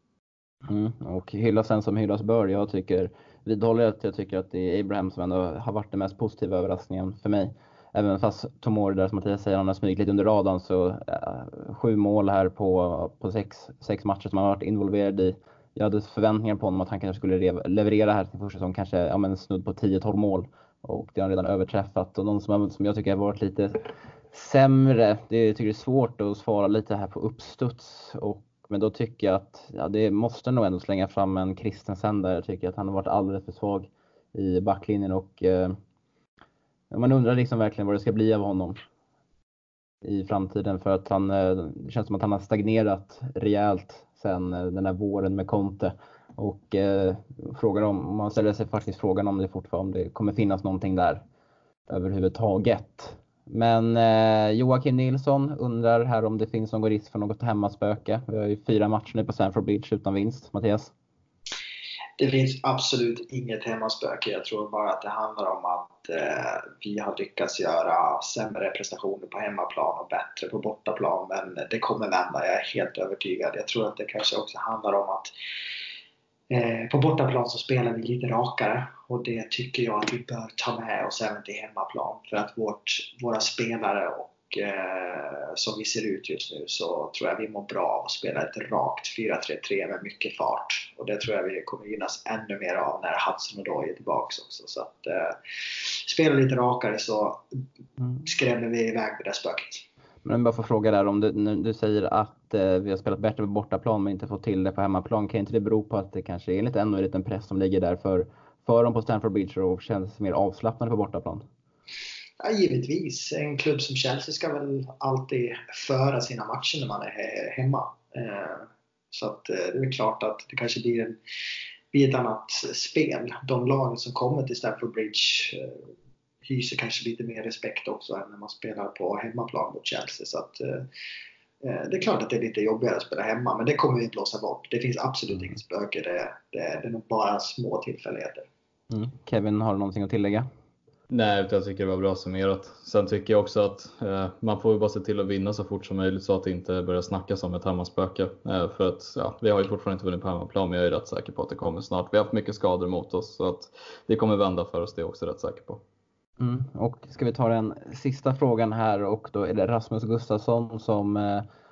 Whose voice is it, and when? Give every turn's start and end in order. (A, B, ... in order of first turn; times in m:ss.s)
0:00.6-0:35.8 A
0:36.9-0:38.8 A
0:40.0-0:51.2 A
0:51.9-1:00.9 A
1:02.2-1:15.3 B
1:16.5-1:37.6 B
1:38.2-1:39.8 B
1:40.2-1:51.4 A
1:52.4-2:01.2 B
2:01.9-2:05.9 B
2:06.4-2:10.9 B
2:11.6-2:18.5 B
2:18.9-2:20.5 A
2:21.1-2:35.8 C
2:36.4-2:41.4 A